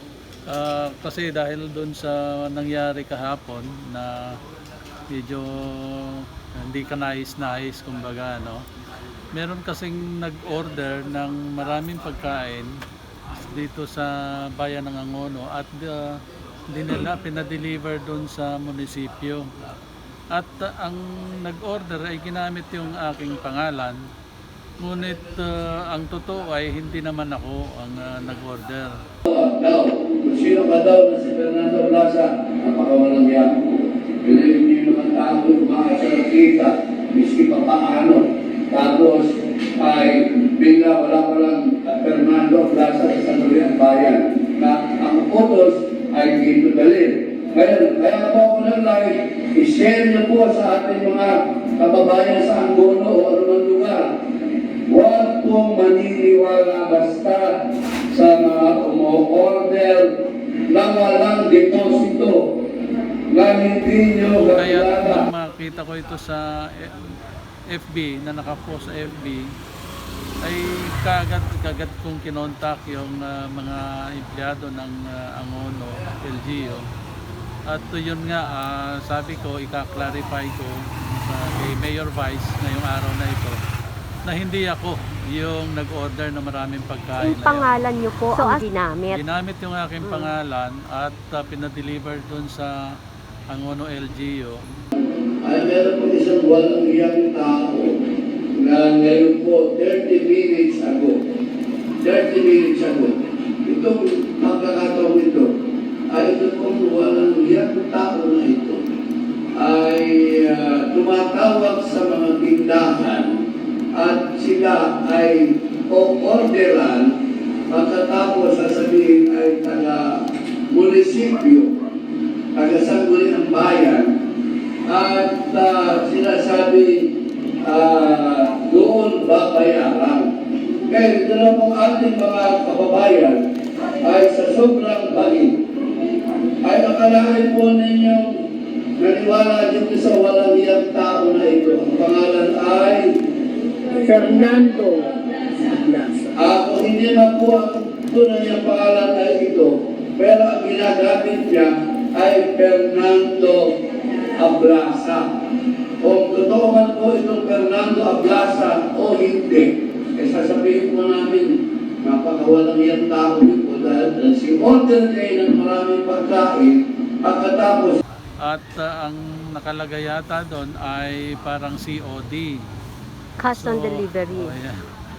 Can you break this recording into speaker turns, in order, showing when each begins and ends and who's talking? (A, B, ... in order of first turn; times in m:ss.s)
0:00.5-0:04.4 A
0:05.1-0:08.6 A
0:09.3-0:12.7 A
0:13.4-0:19.5 A
0:20.3-0:24.0 A
0:24.8-0:28.9 A
0:29.2-0:54.1 B
0:54.9-0:57.6 B
0:58.1-1:00.1 B
1:00.7-1:02.4 B
1:03.3-1:05.2 B
1:04.5-1:07.1 A
1:07.7-1:09.5 A
1:10.4-1:16.8 A
1:17.7-1:23.6 A
1:24.2-1:27.7 A
1:27.2-1:29.2 C
1:28.3-1:32.9 A
1:33.5-1:34.6 A
1:35.4-1:38.0 B
1:38.6-1:41.2 B
1:42.0-1:45.5 B
1:46.1-1:48.8 B
1:49.6-1:53.4 B
1:53.9-1:57.1 B
1:57.7-2:01.8 B
2:02.5-2:04.1 B
2:04.9-2:10.3 B
2:10.9-2:13.4 B
2:14.0-2:15.6 B
2:16.6-2:18.3 B
2:19.0-2:23.2 B
2:23.9-2:26.3 D
2:26.3-2:33.7 B
2:34.4-2:35.2 B
2:36.0-2:48.0 B
2:48.4-2:52.6 A
2:53.4-2:54.5 C
2:53.6-2:54.8 A